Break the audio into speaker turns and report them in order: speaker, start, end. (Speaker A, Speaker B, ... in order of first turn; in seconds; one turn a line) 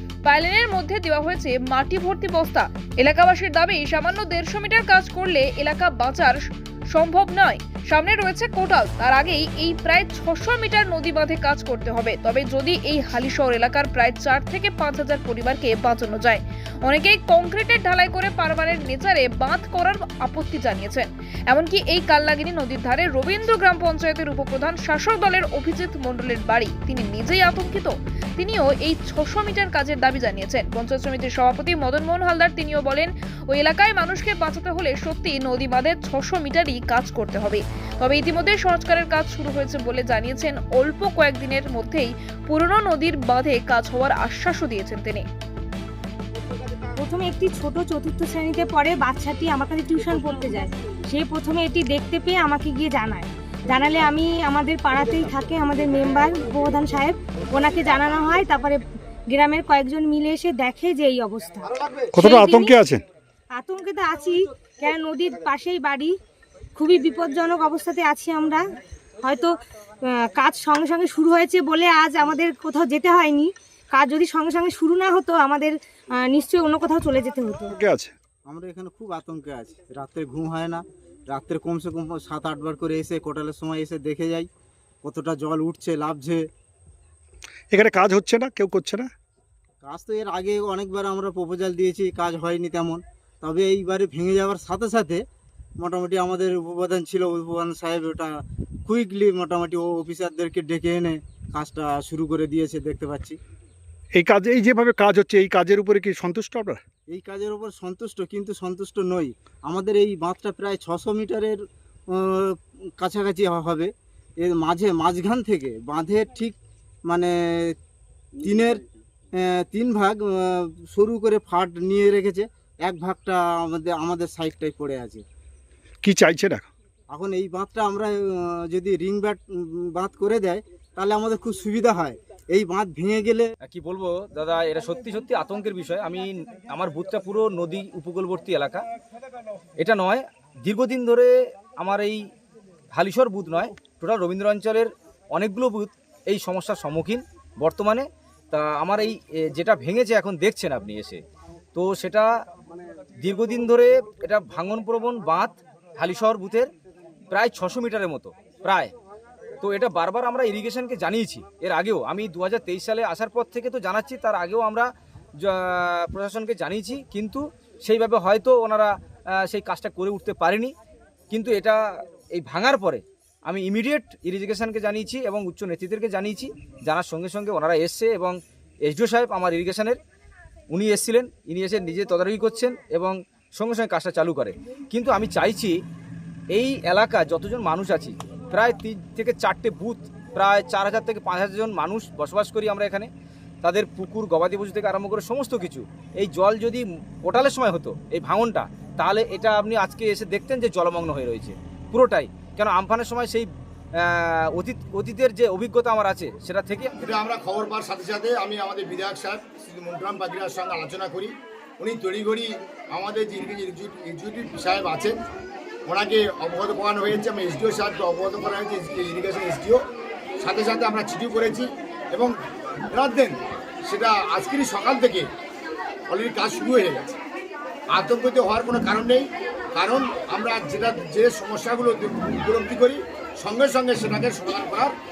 Speaker A: 0.2-45.2
Speaker B: 47.0-62.8
Speaker C: 62.1-63.0
Speaker B: 63.5-66.2
Speaker B: 66.7-68.6
Speaker B: 69.2-77.8
Speaker C: 77.7-78.1
Speaker D: 78.5-84.5
Speaker D: 85.0-86.4
Speaker C: 87.7-89.1
Speaker D: 89.8-95.2
Speaker D: 95.8-103.4
Speaker C: 104.1-106.8
Speaker D: 107.1-111.6
Speaker D: 112.1-113.9
Speaker D: 114.4-116.5
Speaker D: 117.1-117.7
Speaker D: 118.4-118.8
Speaker D: 119.4-125.2
Speaker C: 126.0-126.7
Speaker D: 127.1-133.5
Speaker E: 133.6-138.8
Speaker E: 139.8-142.2
Speaker E: 142.9-151.2
Speaker E: 151.7-152.3
Speaker E: 153.2-156.7
Speaker E: 157.3-158.9
Speaker E: 159.6-164.8
Speaker E: 165.4-170.7
Speaker E: 171.3-171.8
Speaker E: 172.3-180.0
Speaker E: 180.7-185.8
Speaker E: 186.5-193.1
Speaker E: 193.6-203.5
Speaker E: 204.0-206.9
Speaker F: 207.0-215.2
Speaker F: 215.8-219.8
Speaker F: 220.4-222.3
Speaker F: 222.9-225.3
Speaker F: 226.1-227.2
Speaker F: 227.9-234.9